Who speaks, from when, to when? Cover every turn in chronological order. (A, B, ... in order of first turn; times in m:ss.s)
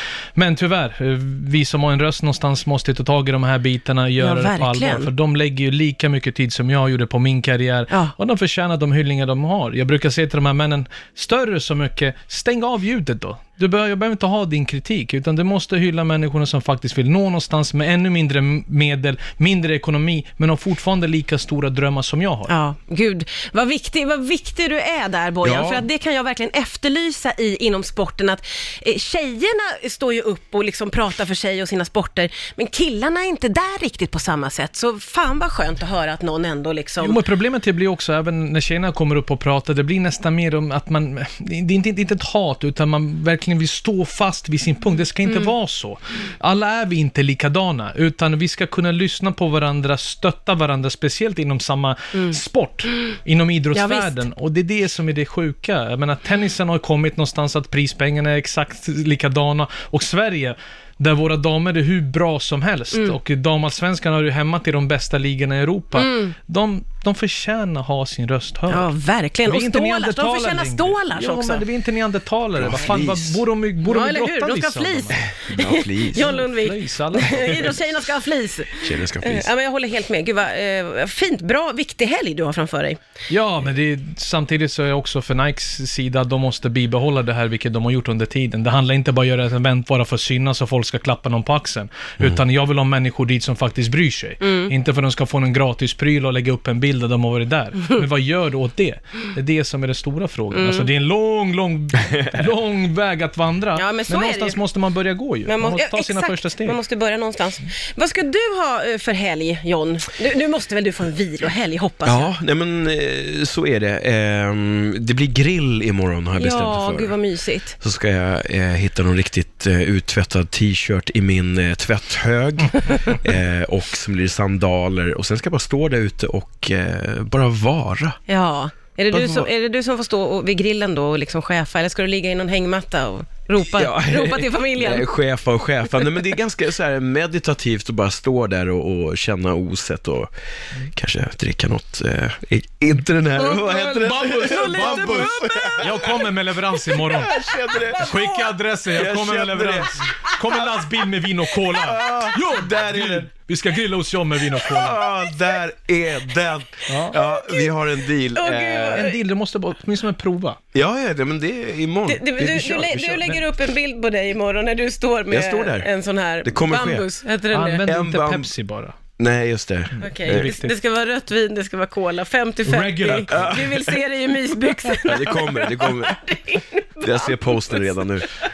0:00.4-0:22.5 A
0:04.2-0:05.1 B
0:22.5-0:37.2 B
0:25.4-0:25.8 C
0:37.0-1:08.9 A
0:53.7-0:54.2 B
1:05.9-1:06.3 B
1:08.7-1:11.6 B
1:09.4-1:15.2 A
1:12.6-1:13.4 C
1:13.8-1:23.0 B
1:15.4-1:16.4 C
1:16.2-1:17.8 A
1:18.8-1:19.5 C
1:23.3-1:46.8 A
1:34.4-1:34.7 B
1:40.5-1:40.9 B
1:43.7-1:44.6 B
1:45.4-1:52.3 B
1:52.0-1:57.2 C
1:56.3-1:57.8 B
1:57.8-2:08.2 C
2:08.3-2:15.1 B
2:09.1-2:09.5 C
2:13.7-2:20.3 C
2:20.9-2:26.2 C
2:23.4-2:27.3 A
2:24.2-2:26.1 B
2:26.9-2:28.1 C
2:27.7-2:28.6 B
2:28.0-2:35.0 A
2:28.9-2:30.0 C
2:30.1-2:30.6 B
2:31.7-2:33.3 C
2:34.6-2:39.0 C
2:36.9-2:37.2 A
2:37.1-2:37.7 B
2:38.3-2:39.2 B
2:38.9-2:40.6 A
2:40.7-2:43.4 C
2:42.0-2:47.9 B
2:45.3-2:47.1 C
2:47.5-2:49.0 A
2:47.8-2:48.5 C
2:49.2-2:50.5 C
2:49.9-2:50.7 A
2:50.0-2:58.0 B
2:52.6-2:53.7 A
2:53.3-2:54.0 C
2:55.0-2:56.2 C
2:57.0-2:58.3 C